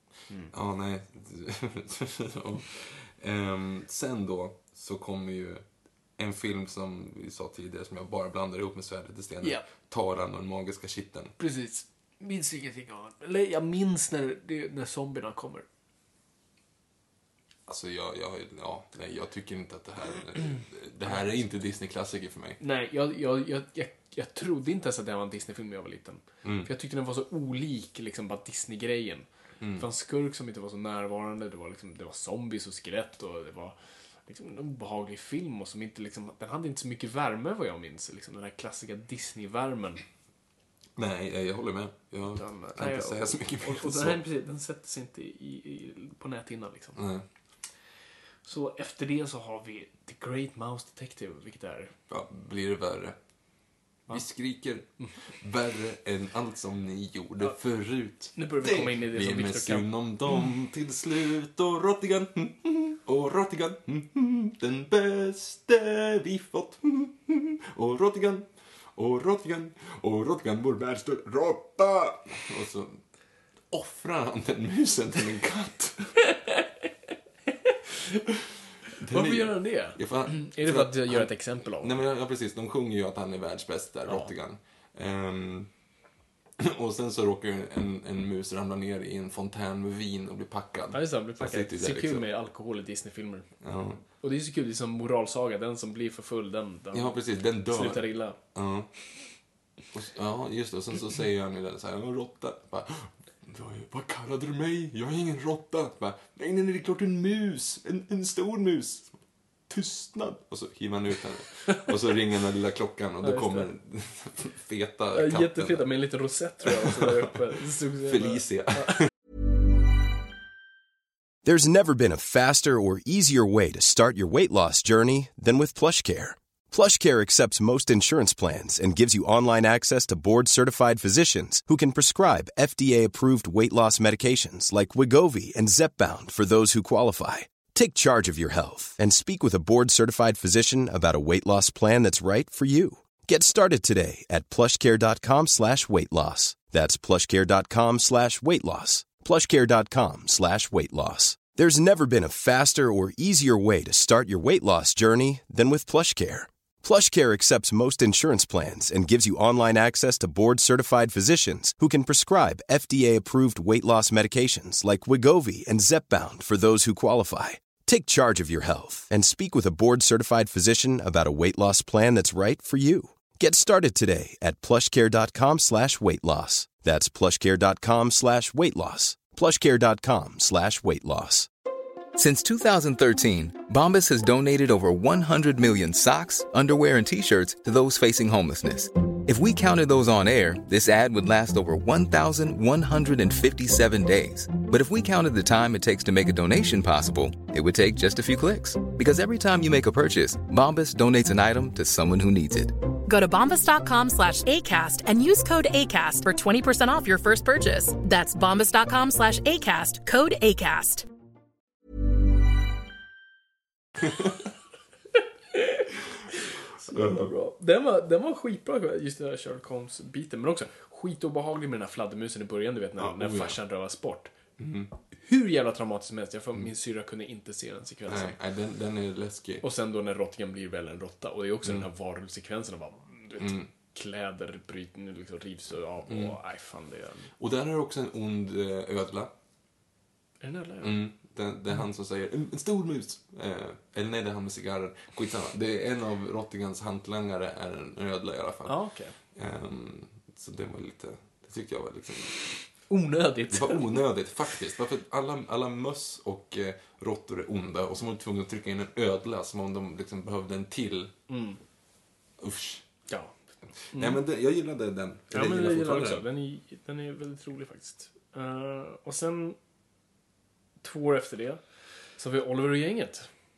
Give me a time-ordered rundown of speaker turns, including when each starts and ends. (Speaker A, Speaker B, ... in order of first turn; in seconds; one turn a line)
Speaker A: 0.5-5.7
Speaker A: 6.2-11.3
Speaker B: 9.4-9.7
Speaker B: 11.4-15.6
Speaker A: 17.7-22.6
Speaker B: 22.6-40.0
Speaker A: 26.4-26.7
Speaker A: 29.6-29.9
Speaker A: 41.0-44.2
Speaker B: 42.3-47.0
Speaker A: 46.9-47.2
Speaker B: 48.4-51.9
Speaker A: 52.1-53.2
Speaker A: 54.1-73.0
Speaker B: 58.3-59.9
Speaker A: 73.7-76.2
Speaker A: 79.0-85.7
Speaker B: 79.1-81.9
Speaker B: 84.0-84.3
Speaker A: 86.6-92.2
Speaker B: 90.9-93.5
Speaker A: 93.6-94.0
Speaker B: 94.2-98.4
Speaker A: 96.9-98.9
Speaker A: 99.9-109.1
Speaker A: 109.7-115.9
Speaker B: 113.2-113.7
Speaker B: 115.1-119.0
Speaker A: 116.7-117.2
Speaker A: 118.0-119.1
Speaker C: 121.4-181.5
Speaker D: 182.1-202.8
Speaker E: 203.1-211.1
Speaker B: 215.5-215.8
Speaker B: 216.4-224.3
Speaker A: 216.9-217.3
Speaker A: 223.0-223.6
Speaker A: 224.6-224.9
Speaker B: 225.2-228.4
Speaker A: 228.1-229.6
Speaker B: 229.6-237.3
Speaker A: 233.4-233.7
Speaker A: 236.1-236.4
Speaker A: 237.4-239.3
Speaker B: 240.4-241.0
Speaker A: 240.8-252.6
Speaker B: 248.7-249.2
Speaker B: 252.8-254.2
Speaker A: 253.5-261.1
Speaker B: 261.3-261.6
Speaker A: 262.4-262.9
Speaker B: 263.1-263.4
Speaker A: 263.7-266.2
Speaker B: 263.9-264.2
Speaker B: 265.3-269.6
Speaker B: 270.8-271.6
Speaker B: 272.1-273.3